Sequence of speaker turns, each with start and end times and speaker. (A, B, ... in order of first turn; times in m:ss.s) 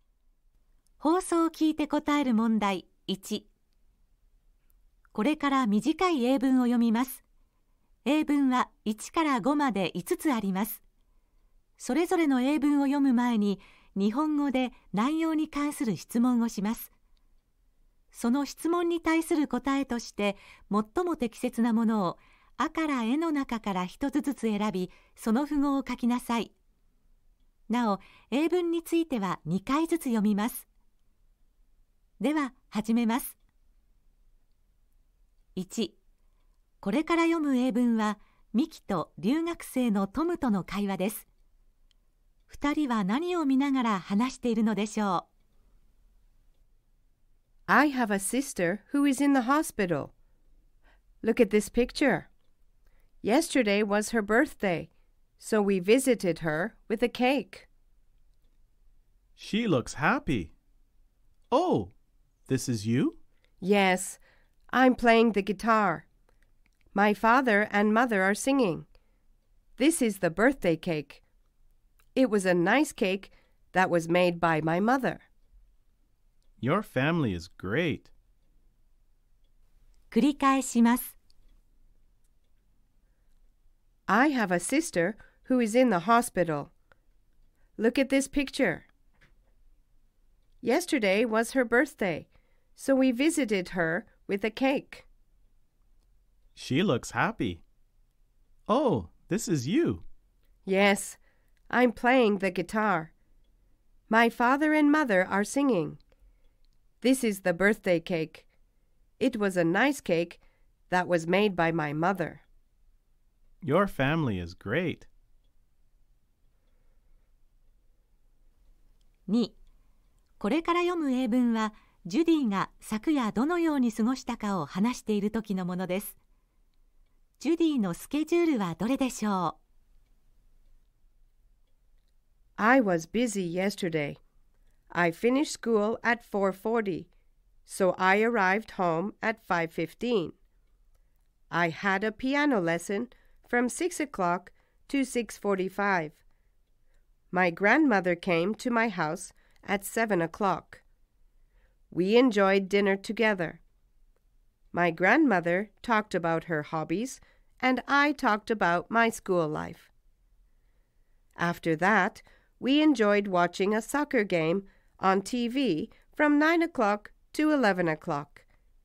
0:01.0-0:03.5 A
0:05.1-0:07.2 A
0:08.0-0:10.8 A
0:11.8-0:16.9 A
0:18.1-0:26.5 A
0:27.7-0:30.7 A
0:32.2-0:33.4 A
0:35.6-0:36.0 A
0:36.8-0:41.3 A
0:42.5-0:45.3 A
0:47.7-0:50.1 B
0:51.2-0:52.3 B
0:53.2-0:54.9 B
0:55.4-0:57.7 B
0:59.4-1:00.5 C
1:01.5-1:01.9 C
1:02.5-1:03.2 C
1:03.6-1:04.2 B
1:04.7-1:06.0 B
1:06.9-1:08.9 B
1:09.8-1:11.2 B
1:12.2-1:15.2 B
1:16.6-1:18.1 C
1:20.1-1:21.2 A
1:24.1-1:26.7 B
1:27.8-1:28.9 B
1:30.6-1:35.1 B
1:36.6-1:37.6 C
1:38.7-1:40.0 C
1:40.7-1:41.2 B
1:41.7-1:43.1 B
1:44.1-1:46.0 B
1:47.0-1:48.5 B
1:49.2-1:52.4 B
1:53.6-1:55.1 C
1:59.3-1:59.6 A
2:00.4-2:06.2 A
2:07.4-2:09.6 A
2:12.6-2:14.2 B
2:14.9-2:17.1 B
2:17.7-2:20.4 B
2:21.5-2:26.2 B
2:27.3-2:30.8 B
2:31.9-2:33.6 B
2:34.7-2:39.9 B
2:41.4-2:48.4 B